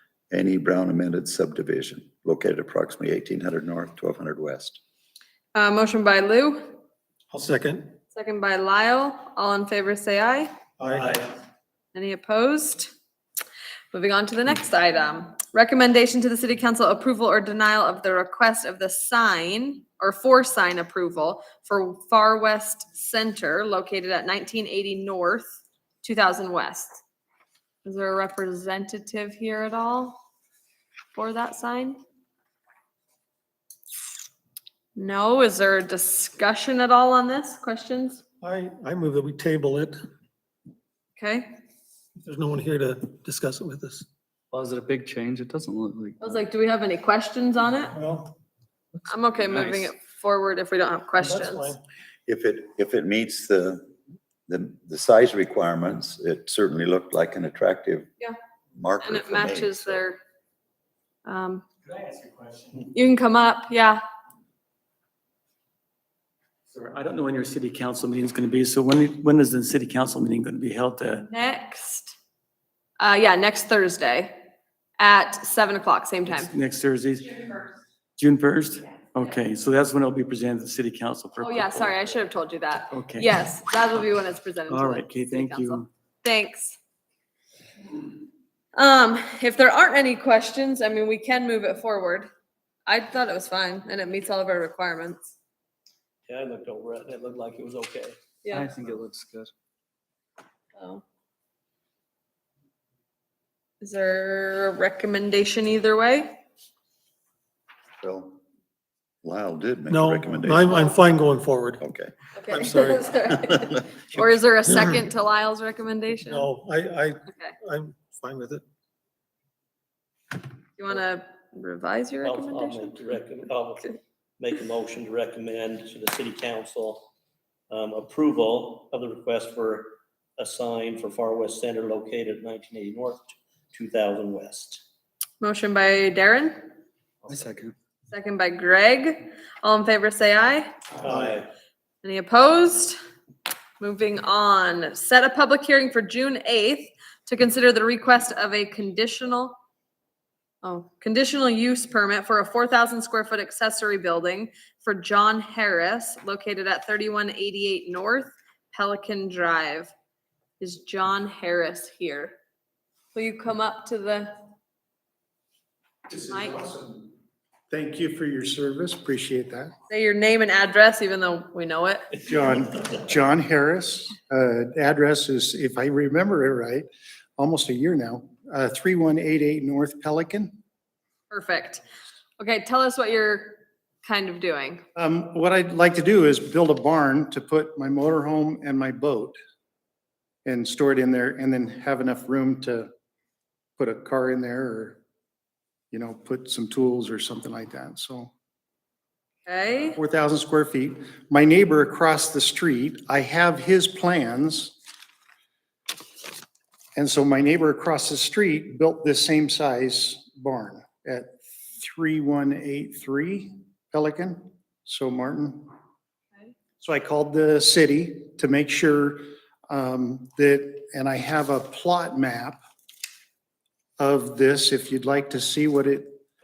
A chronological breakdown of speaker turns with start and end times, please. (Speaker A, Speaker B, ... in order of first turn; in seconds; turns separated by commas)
Speaker A: 0.3-4.8, Speaker B: 5.5-6.6, Speaker C: 7.3-8.0, Speaker B: 8.1-10.5, Speaker C: 10.8-11.3, Speaker B: 11.9-12.9, Speaker B: 13.9-27.0, Speaker B: 27.8-30.2, Speaker B: 31.1-32.0, Speaker B: 35.0-38.2, Speaker C: 38.4-40.0, Speaker B: 41.2-41.5, Speaker C: 42.2-44.0, Speaker D: 44.5-46.3, Speaker B: 46.2-47.9, Speaker C: 47.9-48.3, Speaker B: 49.1-51.7, Speaker C: 49.5-49.9, Speaker C: 51.2-51.8, Speaker A: 52.2-53.9, Speaker A: 54.5-58.1, Speaker A: 58.8-60.0, Speaker B: 59.0-60.2, Speaker B: 61.2-61.6, Speaker E: 61.9-62.9, Speaker B: 62.9-64.0, Speaker E: 66.7-71.2, Speaker B: 71.2-72.1, Speaker B: 73.0-74.3, Speaker B: 75.0-76.5, Speaker E: 76.2-77.4, Speaker E: 78.2-81.9, Speaker B: 81.4-86.8, Speaker E: 82.9-83.4, Speaker E: 84.7-85.9, Speaker B: 88.8-92.3, Speaker B: 92.9-95.3, Speaker F: 96.3-98.2, Speaker B: 98.4-98.8, Speaker D: 98.5-99.5, Speaker B: 100.8-101.0, Speaker B: 103.8-106.4, Speaker A: 108.0-108.4, Speaker A: 109.2-110.8, Speaker C: 109.9-111.8, Speaker A: 111.8-112.1, Speaker B: 112.3-116.5, Speaker C: 112.5-113.1, Speaker C: 114.1-115.0, Speaker C: 116.2-118.6, Speaker B: 117.3-117.5, Speaker B: 120.8-123.0, Speaker F: 122.2-127.1, Speaker F: 127.7-134.8, Speaker B: 135.4-136.7, Speaker D: 137.3-137.7, Speaker B: 138.1-140.7, Speaker F: 141.0-141.5, Speaker B: 142.0-142.9, Speaker B: 143.8-149.6, Speaker B: 150.6-159.9, Speaker B: 160.6-162.3, Speaker B: 163.1-164.3, Speaker G: 166.1-167.1, Speaker B: 166.3-166.6, Speaker G: 167.7-169.7, Speaker B: 169.9-172.1, Speaker G: 172.2-180.5, Speaker B: 181.3-181.8, Speaker B: 182.4-184.8, Speaker G: 184.9-189.3, Speaker G: 190.4-192.9, Speaker G: 193.8-195.0, Speaker G: 195.9-198.3, Speaker B: 199.4-200.0, Speaker G: 199.9-204.7, Speaker G: 206.9-215.7, Speaker G: 216.8-222.6, Speaker G: 224.0-226.1